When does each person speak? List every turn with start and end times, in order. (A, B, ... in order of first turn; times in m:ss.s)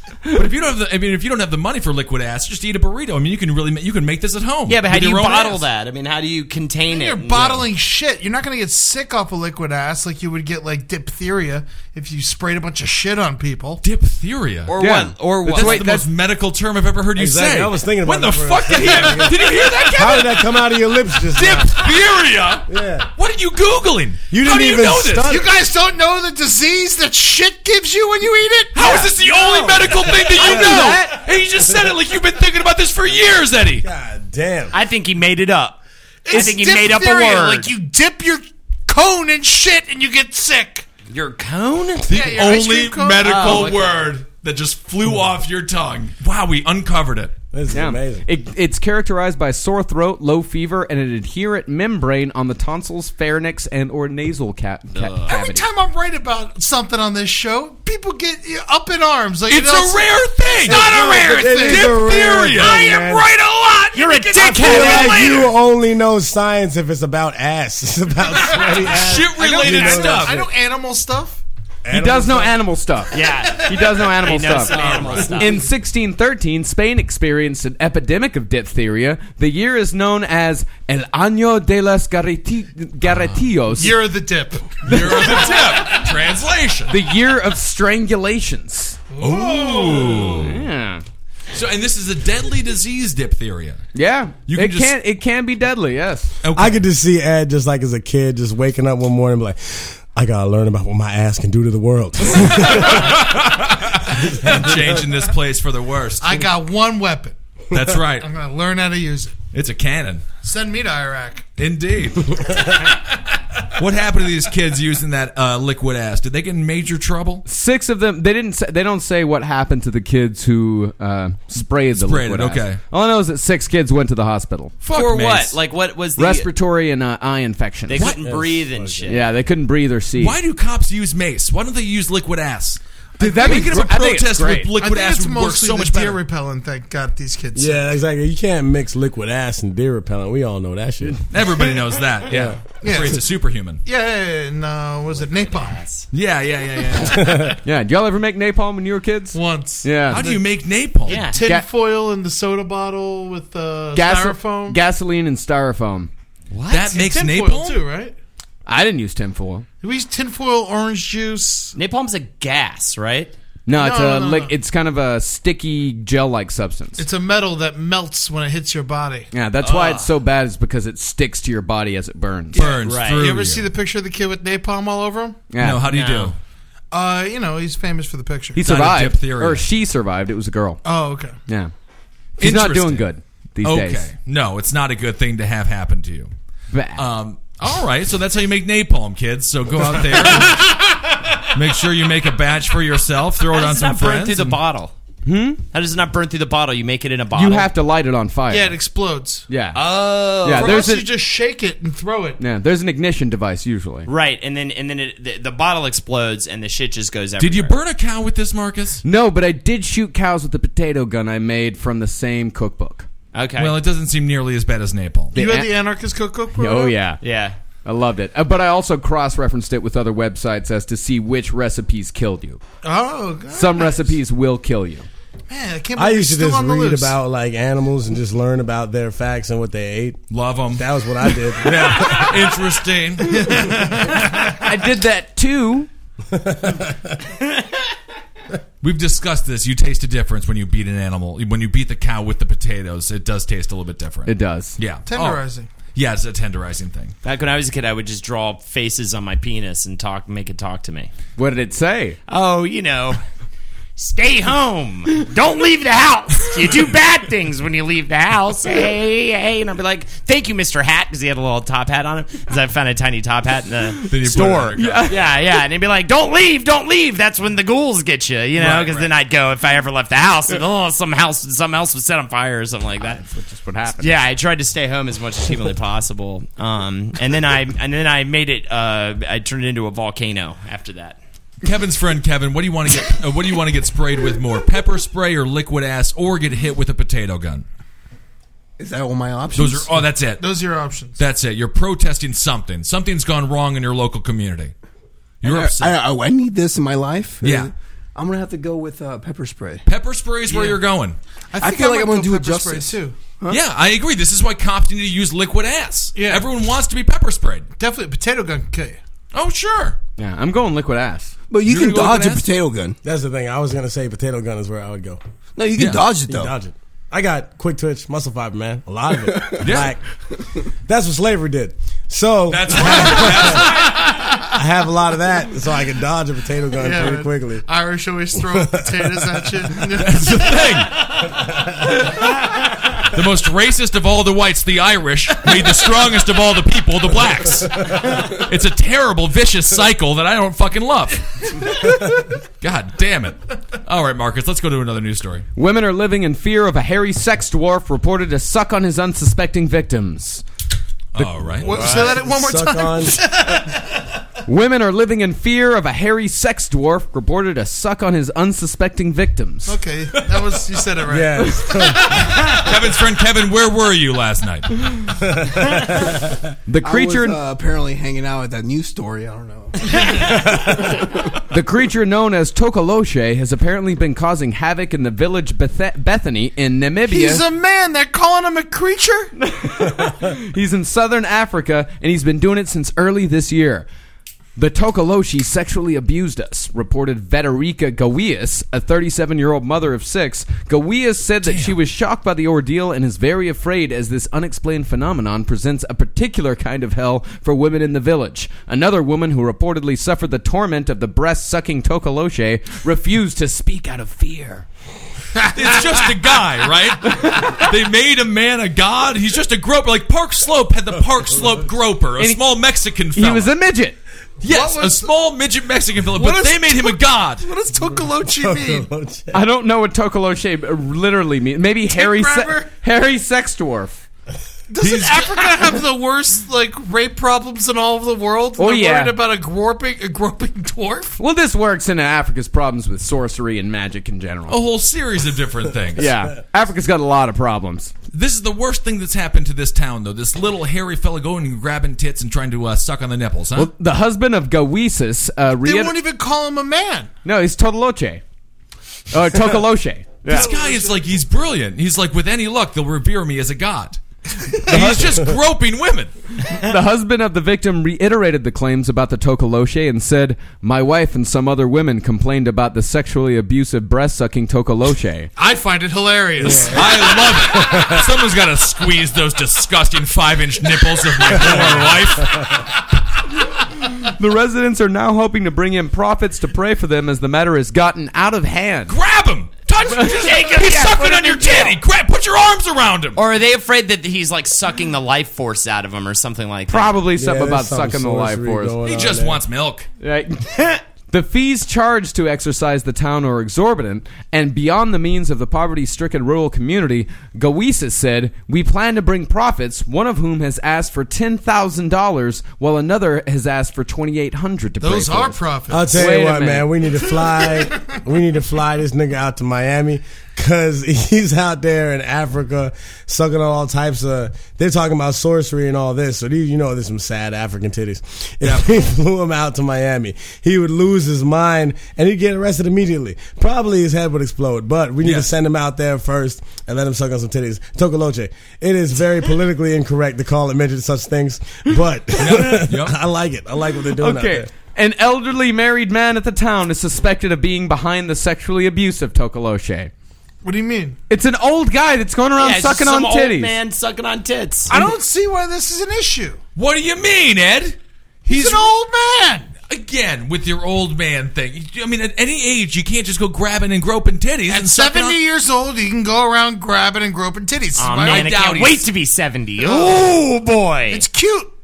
0:00.3-0:05.6 A
0:04.7-0:07.7 B
0:06.9-0:13.8 C
0:13.8-0:14.8 A
0:14.7-0:16.0 B
0:14.8-0:16.1 D
0:15.5-0:20.5 A
0:17.2-0:21.9 E
0:19.3-0:20.3 D
0:21.3-0:25.4 A
0:22.7-0:23.1 E
0:24.3-0:25.5 E
0:25.2-0:29.1 C
0:28.7-0:33.9 A
0:29.2-0:31.9 E
0:30.3-0:31.1 C
0:30.6-0:30.8 B
0:33.8-0:34.8 E
0:34.7-0:37.7 B
0:36.2-0:40.9 C
0:41.1-0:42.3 B
0:42.1-0:47.3 A
0:42.1-0:43.8 C
0:43.2-0:44.0 B
0:47.5-0:48.3 E
0:47.7-0:55.7 D
0:55.0-0:55.3 B
0:55.3-1:02.0 C
0:59.5-1:03.0 A
1:00.6-1:03.3 E
1:02.6-1:05.4 B
1:02.6-1:02.9 C
1:03.9-1:05.5 C
1:04.2-1:10.5 E
1:04.4-1:05.2 A
1:08.4-1:11.4 C
1:09.0-1:10.4 A
1:11.8-1:12.6 E
1:11.9-1:24.0 D
1:13.1-1:15.6 B
1:14.5-1:15.6 C
1:23.0-1:23.5 A
1:23.8-1:26.1 C
1:24.8-1:27.0 A
1:24.8-1:25.6 D
1:26.9-1:29.0 D
1:29.2-1:30.5 C
1:29.2-1:30.6 A
1:30.3-1:31.0 D
1:31.5-1:33.8 A
1:33.9-1:36.4 D
1:34.5-1:35.0 A
1:36.4-1:36.8 A
1:36.6-1:43.3 E
1:42.4-1:46.5 A
1:44.1-1:45.0 E
1:46.2-1:47.4 C
1:47.7-1:48.3 A
1:48.2-1:49.4 C
1:49.5-1:50.2 A
1:50.4-1:51.5 C
1:51.6-1:52.9 A
1:53.8-1:57.4 A
1:57.5-2:04.7 D
2:01.9-2:02.8 A
2:04.8-2:05.6 A
2:04.9-2:06.5 B
2:06.2-2:08.1 D
2:07.9-2:09.2 B
2:08.2-2:09.2 E
2:09.0-2:10.4 D
2:10.2-2:16.2 A
2:13.2-2:14.8 D
2:13.4-2:13.7 C
2:14.8-2:17.8 C
2:17.6-2:21.2 E
2:21.3-2:23.8 A
2:22.3-2:22.6 E
2:22.8-2:23.3 C
2:23.8-2:25.8 C
2:25.1-2:26.1 B
2:26.1-2:27.6 A
2:27.0-2:27.6 E
2:27.6-2:30.2 D
2:29.3-2:30.5 C
2:30.1-2:31.4 A
2:31.1-2:31.4 B
2:31.1-2:34.8 C
2:31.4-2:31.7 D
2:33.9-2:36.1 D
2:36.5-2:37.0 B
2:36.7-2:37.9 A
2:36.9-2:38.2 C
2:38.7-2:39.7 D
2:39.8-2:41.8 C
2:41.8-2:43.3 B
2:43.7-2:47.0 D
2:43.7-2:44.5 C
2:47.0-2:49.3 C
2:49.3-2:52.6 D
2:49.6-2:50.0 B
2:52.5-2:53.7 A
2:52.5-2:55.5 C
2:52.8-2:53.2 B
2:55.5-2:55.9 D
2:55.6-2:56.4 A
2:55.9-2:56.4 B
2:56.9-2:58.6 C
2:58.6-3:00.8 D
2:58.6-2:59.7 A
3:00.8-3:01.4 C
3:01.5-3:01.7 D
3:02.4-3:03.1 A
3:02.4-3:04.1 D
3:03.6-3:06.3 A
3:06.7-3:07.0 D
3:07.0-3:10.8 A
3:10.3-3:10.8 C
3:11.5-3:14.6 A
3:13.5-3:14.9 B
3:15.3-3:15.6 D
3:15.7-3:17.7 B
3:17.3-3:18.8 D
3:18.5-3:19.5 C
3:19.5-3:19.8 D
3:19.7-3:20.9 B
3:20.4-3:21.1 D
3:20.5-3:22.4 C
3:22.4-3:24.1 D
3:24.1-3:27.8 B
3:27.4-3:29.0 A
3:29.0-3:33.1 D
3:33.3-3:33.8 B
3:33.6-3:35.4 A
3:35.3-3:37.0 C
3:35.4-3:35.6 B
3:35.4-3:35.7 D
3:36.6-3:37.2 D
3:37.2-3:37.6 B
3:37.8-3:42.6 D
3:42.8-3:44.1 C
3:43.5-3:45.1 D
3:45.5-3:47.2 C
3:46.0-3:50.2 E
3:50.3-3:50.9 A
3:50.7-3:52.5 E
3:51.6-3:53.6 A
3:53.3-3:54.6 C
3:54.4-3:55.9 D
3:56.3-3:57.2 E
3:58.8-4:05.4 A
4:04.3-4:04.8 D
4:05.1-4:05.7 C
4:05.9-4:07.1 A
4:07.2-4:11.1 B
4:11.4-4:12.2 D
4:12.3-4:13.2 B
4:14.0-4:33.2 B
4:24.0-4:25.2 A
4:24.8-4:25.4 D
4:28.6-4:29.1 A
4:33.0-4:34.2 D
4:34.0-4:41.2 B
4:41.6-4:47.6 A
4:48.8-4:50.1 F
4:49.6-4:50.5 A
4:50.4-4:51.2 C
4:51.2-4:54.7 A
4:55.4-4:56.0 A
4:55.4-4:59.9 F
4:57.4-4:57.7 A
4:59.9-5:01.2 A
5:00.5-5:00.8 C
5:01.5-5:03.2 C
5:01.6-5:03.6 F
5:03.5-5:07.7 A
5:06.2-5:06.5 C
5:07.8-5:09.0 C
5:09.3-5:10.0 A
5:10.2-5:11.4 D
5:11.5-5:13.0 F
5:11.6-5:12.5 A
5:13.0-5:15.2 E
5:15.6-5:16.5 F
5:15.8-5:16.1 A
5:16.3-5:20.0 E
5:19.6-5:20.0 A
5:20.8-5:23.8 E
5:22.5-5:24.2 A
5:24.4-5:27.6 E
5:26.8-5:30.8 C
5:28.3-5:29.6 E
5:29.9-5:31.2 A
5:33.0-5:45.5 A
5:45.6-5:50.4 D
5:51.1-5:52.1 A
5:51.2-5:51.7 D
5:51.6-5:53.9 C
5:51.7-5:53.6 E
5:54.5-5:59.8 D
5:59.7-6:02.7 C
6:01.1-6:02.3 E
6:02.3-6:05.1 A
6:05.2-6:06.4 E
6:06.7-6:07.4 D
6:06.8-6:09.8 F
6:11.5-6:17.4 D
6:17.1-6:19.3 C
6:19.4-6:23.9 D
6:24.6-6:44.7 D
6:31.4-6:31.8 A
6:45.5-6:53.5 A
6:45.6-6:46.0 C
6:47.1-6:47.6 D
6:53.2-6:54.0 D
6:54.4-6:57.5 A
6:54.5-6:55.1 C
6:56.1-6:58.9 C
6:57.8-6:59.4 E
6:59.3-7:04.0 D
7:01.9-7:02.7 C
7:04.7-7:11.2 C
7:04.8-7:05.6 A
7:08.6-7:09.2 D
7:11.2-7:14.6 D
7:14.5-7:16.1 A
7:16.0-7:17.9 D
7:18.1-7:23.7 A
7:23.6-7:26.0 D
7:25.6-7:27.1 C
7:27.2-7:28.2 D
7:29.1-7:30.5 D
7:30.3-7:34.0 A
7:30.3-7:31.2 C
7:34.6-7:36.1 A
7:34.7-7:35.0 D
7:36.5-7:45.3 D
7:45.4-7:47.3 C
7:46.4-7:48.1 E
7:46.5-7:52.7 A
7:51.4-7:51.7 E
7:53.8-7:59.0 D
7:58.9-8:03.2 A
7:59.9-8:00.5 D
7:59.9-8:01.8 B
8:03.2-8:07.0 B
8:06.7-8:08.8 D
8:07.1-8:09.4 E
8:08.8-8:09.9 A
8:10.0-8:25.4 D
8:24.8-8:25.9 C
8:25.7-8:54.5 E
8:25.9-8:26.7 D
8:27.2-8:27.9 C
8:38.4-8:38.7 A
8:45.0-8:45.3 A
8:52.2-8:53.0 A
8:54.0-8:59.9 D
9:00.4-9:01.0 C
9:01.1-9:03.6 D
9:02.4-9:04.7 B
9:04.7-9:06.4 C
9:06.6-9:08.7 A
9:08.3-9:09.5 C
9:09.7-9:15.2 A
9:14.5-9:18.4 C
9:17.8-9:21.0 B
9:18.0-9:18.8 A
9:19.6-9:20.2 C
9:20.9-9:21.5 C